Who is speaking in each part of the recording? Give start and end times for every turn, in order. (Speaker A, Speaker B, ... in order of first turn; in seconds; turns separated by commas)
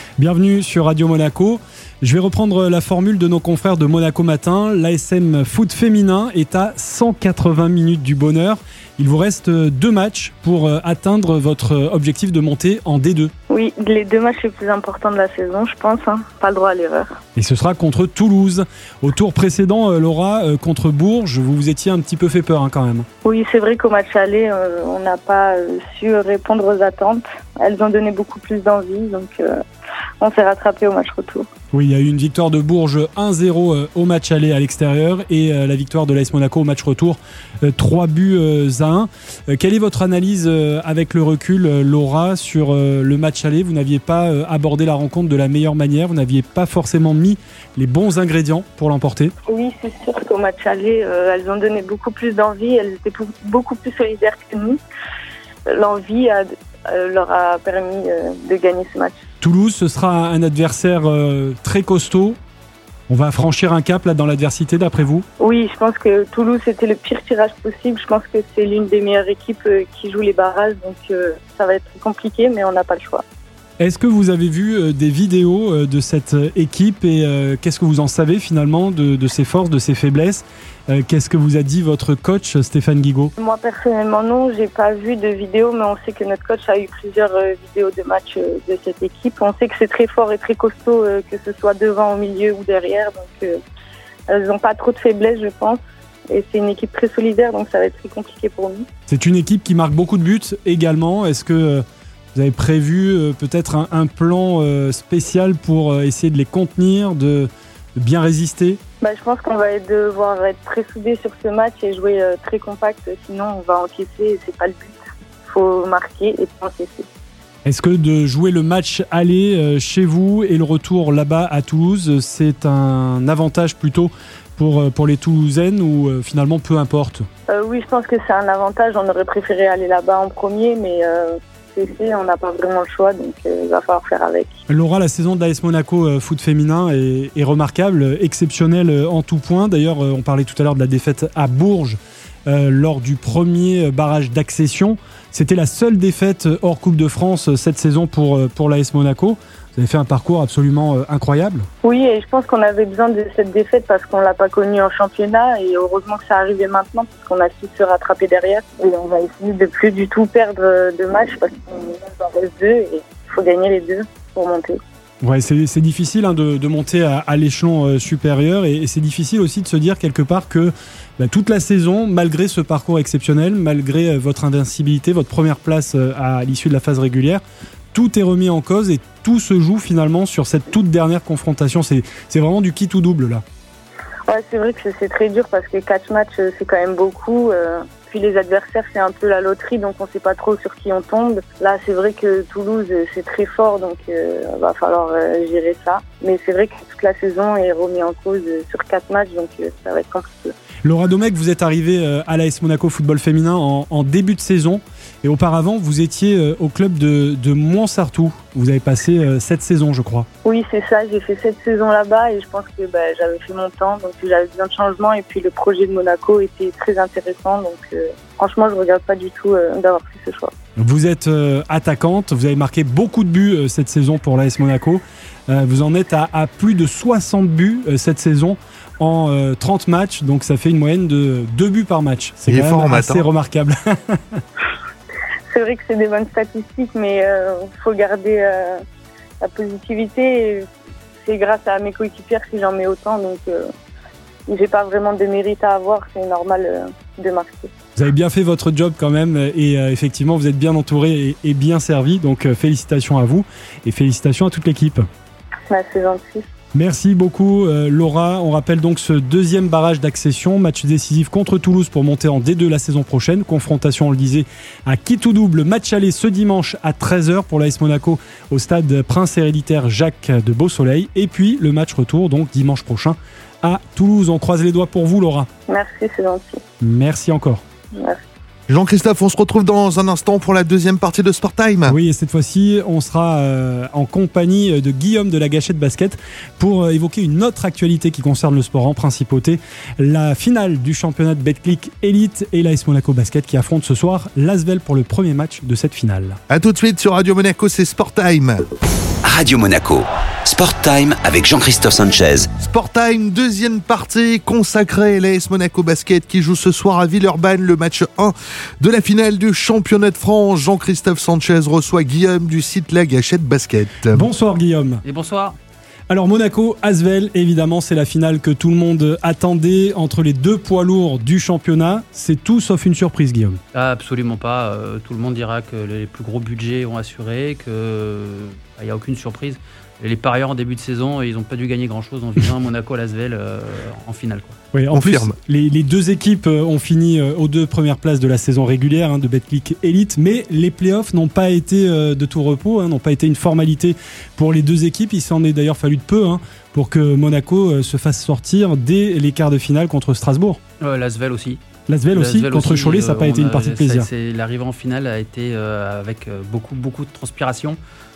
Speaker A: 0.2-13.3, Speaker B: 13.5-17.1, Speaker A: 17.4-23.1, Speaker B: 23.2-29.6, Speaker B: 30.2-31.5, Speaker A: 31.7-49.3, Speaker B: 49.5-54.8, Speaker B: 55.7-59.2, Speaker A: 59.4-62.4, Speaker A: 63.1-65.2, Speaker B: 65.4-73.2, Speaker A: 73.8-83.3, Speaker B: 83.4-93.6, Speaker B: 94.3-98.8, Speaker A: 99.1-101.8, Speaker A: 102.3-108.8, Speaker B: 109.0-117.1, Speaker A: 117.6-127.3, Speaker B: 127.5-134.5, Speaker A: 134.7-151.7, Speaker B: 151.8-164.8, Speaker A: 165.2-177.4, Speaker A: 177.9-183.4, Speaker B: 184.3-200.5, Speaker A: 200.8-210.3, Speaker B: 210.4-220.5, Speaker A: 220.8-234.4, Speaker C: 232.5-233.2, Speaker B: 235.5-238.8, Speaker B: 239.4-240.6, Speaker B: 241.2-243.7, Speaker B: 244.5-247.7, Speaker A: 247.9-255.0, Speaker B: 255.7-256.4, Speaker A: 256.7-275.5, Speaker B: 275.7-276.6, Speaker A: 276.8-277.6, Speaker B: 277.9-278.2, Speaker C: 278.7-281.9, Speaker A: 281.9-296.4, Speaker C: 296.5-298.6, Speaker D: 299.2-302.5, Speaker C: 302.6-314.2, Speaker A: 314.1-315.0, Speaker E: 315.0-315.6, Speaker A: 316.1-323.6, Speaker E: 323.7-334.6, Speaker A: 334.7-350.6, Speaker C: 334.9-335.3, Speaker E: 350.8-351.6, Speaker A: 351.9-354.1, Speaker E: 352.1-357.8